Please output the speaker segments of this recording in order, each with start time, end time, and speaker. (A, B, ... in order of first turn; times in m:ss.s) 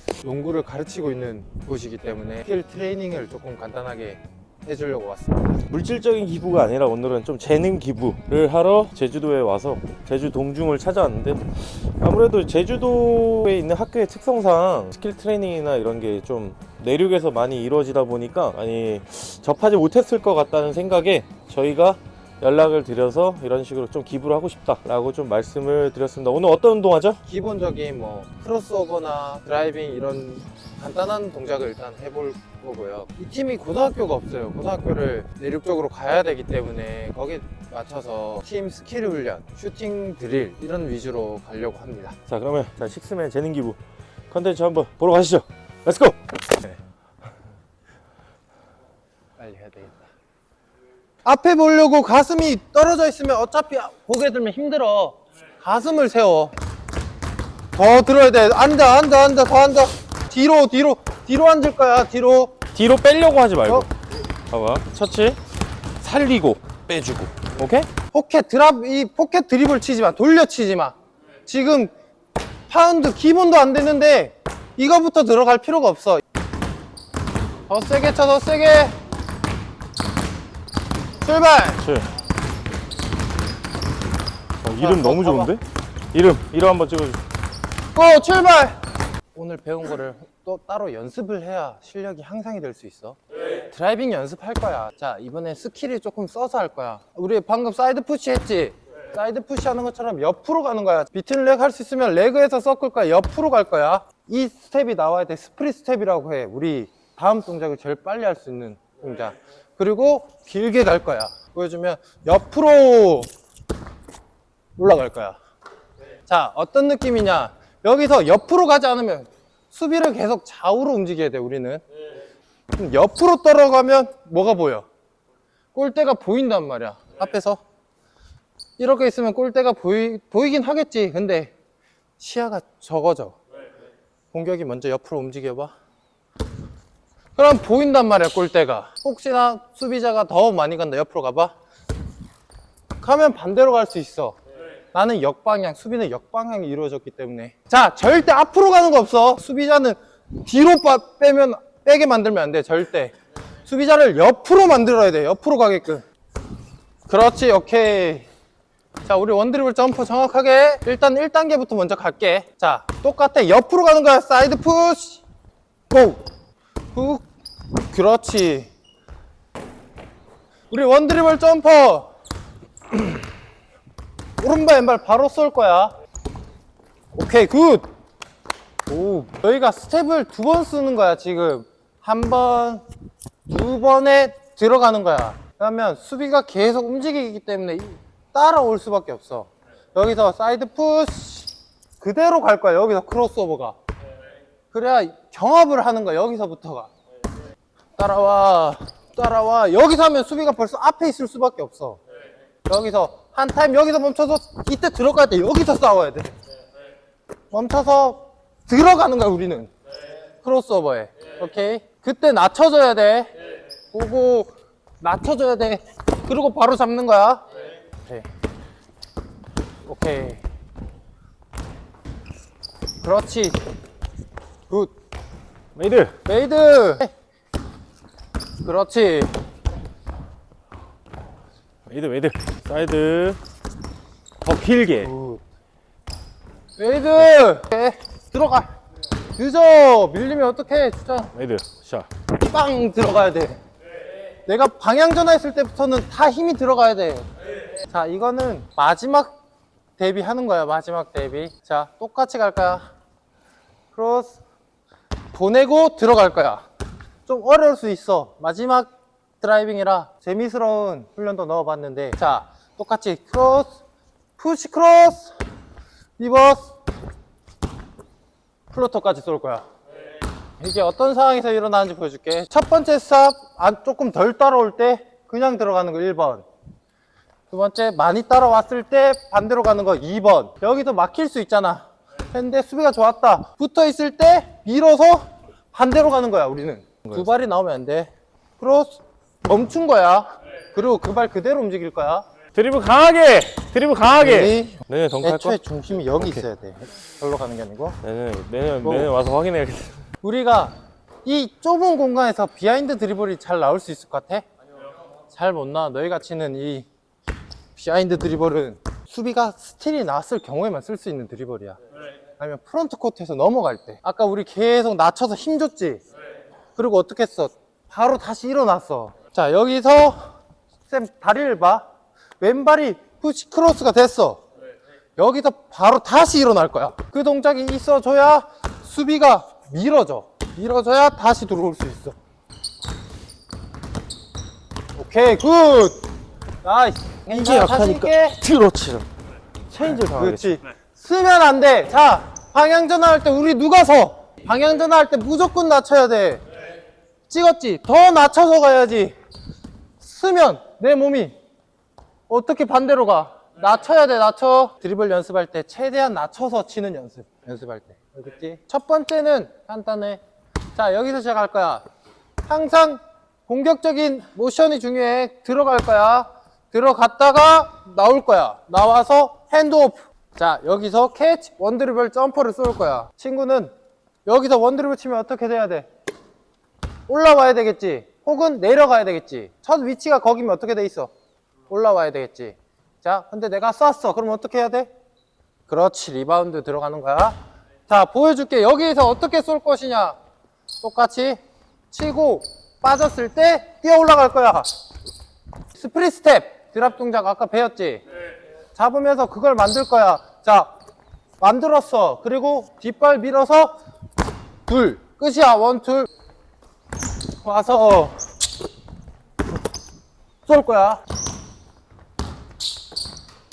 0:00.2-0:05.6 A
0:05.7-0:27.2 B
0:27.3-0:42.2 A
0:42.3-0:43.8 B
0:44.3-0:46.8 B
0:49.4-0:50.1 A
0:51.2-0:56.5 A
0:57.7-1:02.6 A
1:02.7-1:03.9 B
1:04.5-1:05.4 B
1:06.0-1:07.9 B
1:08.1-1:11.0 A
1:11.5-1:11.9 A
1:12.7-1:16.2 A
1:17.7-1:19.0 A
1:21.2-1:21.8 A
1:21.8-1:22.1 B
1:24.6-1:25.6 B
1:24.8-1:25.6 A
1:26.1-1:27.2 B
1:27.9-1:28.8 A
1:29.3-1:53.3 A
1:54.8-1:55.4 A
1:56.3-2:01.8 A
2:02.7-2:04.9 A
2:05.8-2:07.6 A
2:08.8-2:11.5 A
2:12.2-2:13.4 A
2:14.3-2:15.7 A
2:17.4-2:21.5 A
2:23.0-2:24.4 A
2:24.9-2:33.1 A
2:33.7-2:36.0 A
2:37.1-2:38.3 A
2:39.1-2:45.2 A
2:45.9-2:46.3 A
2:46.9-2:47.2 A
2:47.9-2:48.7 A
2:50.7-2:52.1 A
2:54.4-2:55.9 A
2:57.1-2:57.9 A
2:58.9-3:02.8 A
3:03.5-3:13.8 A
3:14.7-3:16.9 A
3:18.0-3:22.0 A
3:22.7-3:26.3 A
3:27.5-3:29.7 A
3:30.4-3:33.3 A
3:33.9-3:37.4 A
3:39.8-3:40.4 A
3:43.0-3:43.6 A
3:45.8-3:46.2 B
3:46.3-3:47.1 A
3:48.6-3:49.3 A
3:51.9-3:53.4 B
3:54.4-3:55.1 B
3:55.0-3:55.4 A
3:56.8-3:58.7 A
3:59.4-4:01.3 A
4:01.3-4:02.1 B
4:02.4-4:03.6 A
4:04.5-4:07.3 A
4:07.9-4:09.4 A
4:10.0-4:12.9 A
4:13.9-4:14.4 A
4:15.3-4:16.6 A
4:17.3-4:23.7 A
4:24.4-4:25.3 A
4:26.2-4:26.7 A
4:28.7-4:29.6 A
4:30.6-4:36.4 A
4:37.5-4:52.2 A
4:52.5-4:55.6 B
4:54.2-4:58.0 A
4:56.2-4:56.4 B
4:58.0-5:00.1 B
4:58.8-4:59.1 A
5:00.2-5:04.4 A
5:05.3-5:06.9 A
5:07.8-5:11.8 A
5:12.4-5:16.0 A
5:16.8-5:20.3 A
5:20.9-5:21.9 A
5:22.4-5:24.4 A
5:25.2-5:32.2 A
5:35.0-5:36.1 A
5:36.6-5:38.4 A
5:37.3-5:39.1 B
5:39.7-5:40.6 B
5:39.8-5:46.4 A
5:47.3-5:49.1 A
5:50.0-5:51.4 A
5:52.3-6:00.2 A
6:00.8-6:01.8 A
6:02.5-6:13.7 A
6:14.3-6:15.9 A
6:17.1-6:21.1 A
6:21.7-6:24.9 A
6:25.7-6:30.2 A
6:30.8-6:31.4 A
6:31.9-6:34.7 A
6:35.7-6:38.0 A
6:38.8-6:40.7 A
6:41.4-6:43.8 A
6:44.7-6:46.1 A
6:47.4-6:48.2 A
6:50.5-6:51.0 A